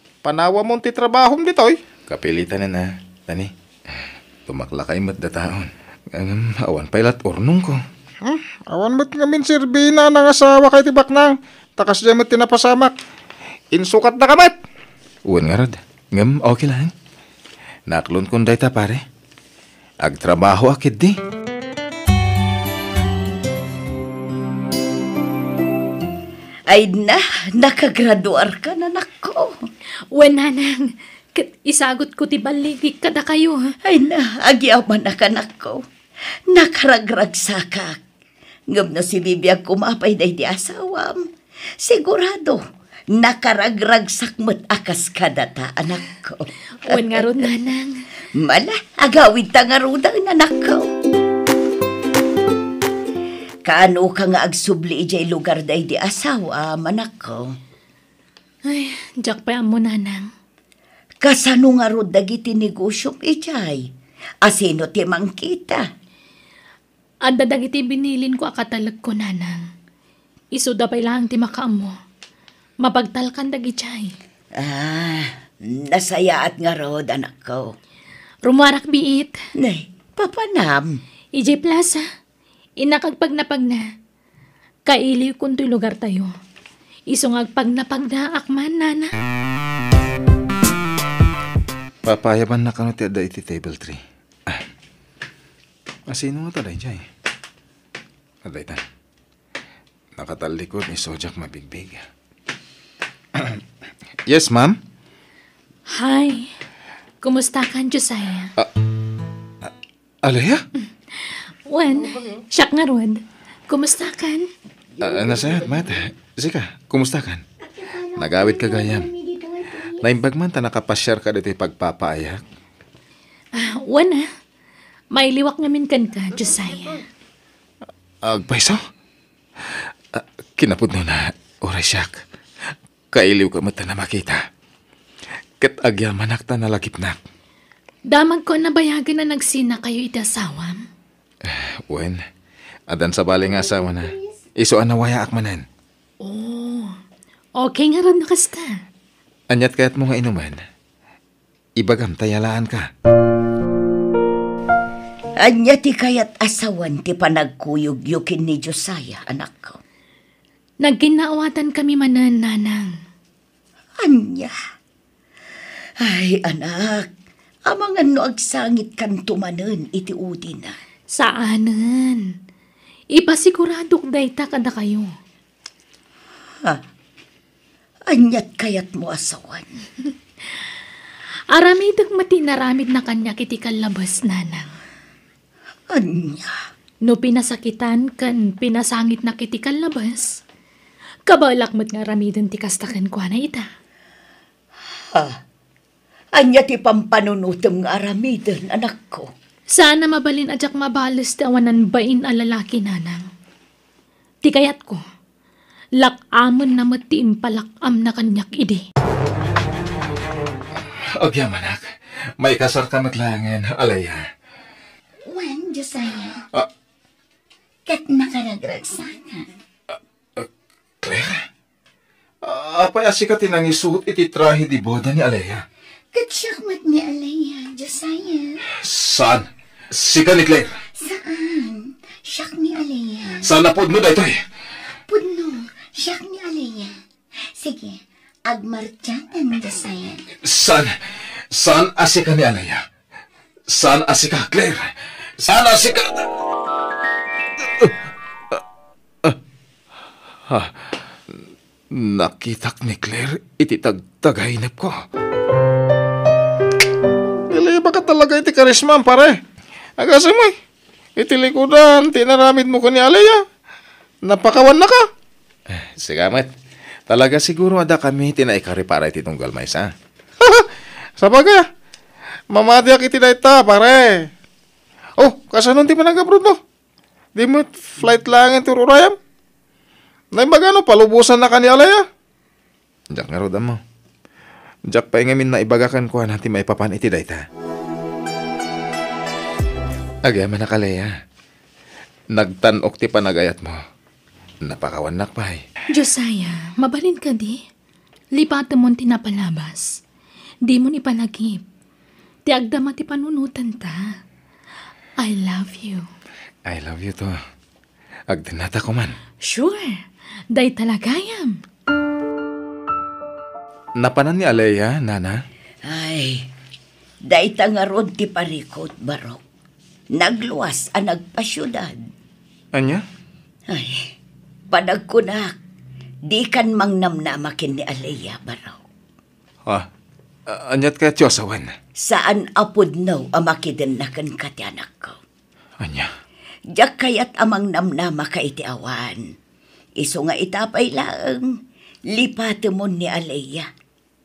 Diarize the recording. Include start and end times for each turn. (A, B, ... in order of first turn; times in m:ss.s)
0:00.2-0:01.8 A
0:02.1-0:07.8 B
0:08.2-0:12.9 A
0:13.7-0:14.6 A
0:15.3-0:16.9 B
0:17.9-0:19.0 B
0:20.0-0:21.2 B
0:26.7-0:29.6 C
0:30.1-0:33.6 D
0:33.9-0:35.8 C
0:36.5-0:38.0 C
0:38.7-0:41.2 C
0:41.8-0:42.6 C
0:43.2-0:47.4 C
0:46.8-0:48.0 D
0:48.4-0:50.9 C
0:53.7-0:57.5 C
0:58.7-1:00.3 D
1:01.2-1:03.8 C
1:04.4-1:05.8 C
1:07.2-1:09.7 D
1:10.5-1:11.9 D
1:12.8-1:14.1 D
1:14.6-1:17.6 C
1:18.4-1:19.4 D
1:19.6-1:20.9 C
1:21.4-1:22.0 D
1:22.8-1:23.9 D
1:24.9-1:26.3 D
1:27.1-1:29.1 D
1:32.0-1:34.6 B
1:36.1-1:37.1 B
1:38.4-1:38.8 B
1:40.2-1:42.0 B
1:43.4-1:43.6 B
1:44.3-1:44.8 B
1:45.9-1:46.5 D
1:47.2-1:48.5 D
1:50.2-1:50.6 B
1:51.2-1:54.5 D
1:55.0-1:56.0 C
1:55.0-1:57.4 B
1:57.7-2:00.1 C
1:58.2-1:59.1 B
2:00.0-2:02.4 B
2:03.5-2:04.3 D
2:05.1-2:07.0 D
2:08.2-2:08.8 B
2:10.1-2:12.2 B
2:13.1-2:14.4 B
2:15.6-2:17.2 B
2:18.1-2:20.8 D
2:21.4-2:22.2 B
2:22.9-2:25.6 B
2:26.2-2:27.0 D
2:27.6-2:28.8 D
2:29.5-2:30.6 B
2:31.8-2:32.9 B
2:35.4-2:39.8 C
2:40.8-2:42.9 D
2:44.0-2:44.5 C
2:46.0-2:47.1 C
2:47.7-2:50.8 C
2:51.1-2:52.3 D
2:53.1-2:55.1 D
2:58.1-2:59.7 C
3:01.5-3:04.7 D
3:05.9-3:06.6 C
3:07.0-3:10.4 D
3:11.3-3:13.7 D
3:16.4-3:19.3 C
3:19.8-3:23.3 D
3:24.4-3:25.0 D
3:26.0-3:28.8 D
3:31.0-3:34.3 B
3:35.2-3:36.4 C
3:37.9-3:39.5 C
3:41.0-3:41.4 B
3:42.4-3:45.6 B
3:46.1-3:48.6 C
3:48.7-3:50.8 B
3:50.9-3:53.5 C
3:53.4-3:54.4 B
3:55.1-4:00.3 C
4:00.4-4:00.9 B
4:01.5-4:02.8 B
4:03.7-4:06.3 B
4:07.6-4:08.0 B
4:10.5-4:10.8 B
4:11.9-4:15.0 B
4:17.5-4:19.4 A
4:20.0-4:20.6 A
4:21.2-4:23.4 A
4:24.2-4:25.1 A
4:25.7-4:26.5 B
4:27.1-4:29.9 B
4:30.4-4:30.7 A
4:31.2-4:31.7 A
4:32.5-4:34.3 A
4:35.2-4:36.6 A
4:37.4-4:39.2 A
4:40.3-4:42.0 A
4:43.1-4:43.8 B
4:44.9-4:47.4 B
4:50.2-4:51.2 B
4:52.3-4:53.8 B
4:54.6-4:55.6 B
4:55.9-4:57.6 D
4:58.4-5:00.0 D
5:00.7-5:01.6 D
5:02.5-5:04.1 D
5:05.2-5:06.1 D
5:06.7-5:07.4 B
5:08.3-5:09.2 B
5:09.4-5:10.0 D
5:10.5-5:11.6 D
5:14.0-5:15.4 B
5:15.9-5:16.5 C
5:17.3-5:19.4 C
5:20.2-5:21.9 C
5:22.7-5:23.0 B
5:23.7-5:24.0 C
5:24.7-5:25.5 C
5:26.3-5:28.8 C
5:30.5-5:31.7 B
5:32.0-5:35.2 C
5:35.8-5:36.1 B
5:36.8-5:39.2 C
5:40.0-5:41.5 C
5:42.1-5:43.7 C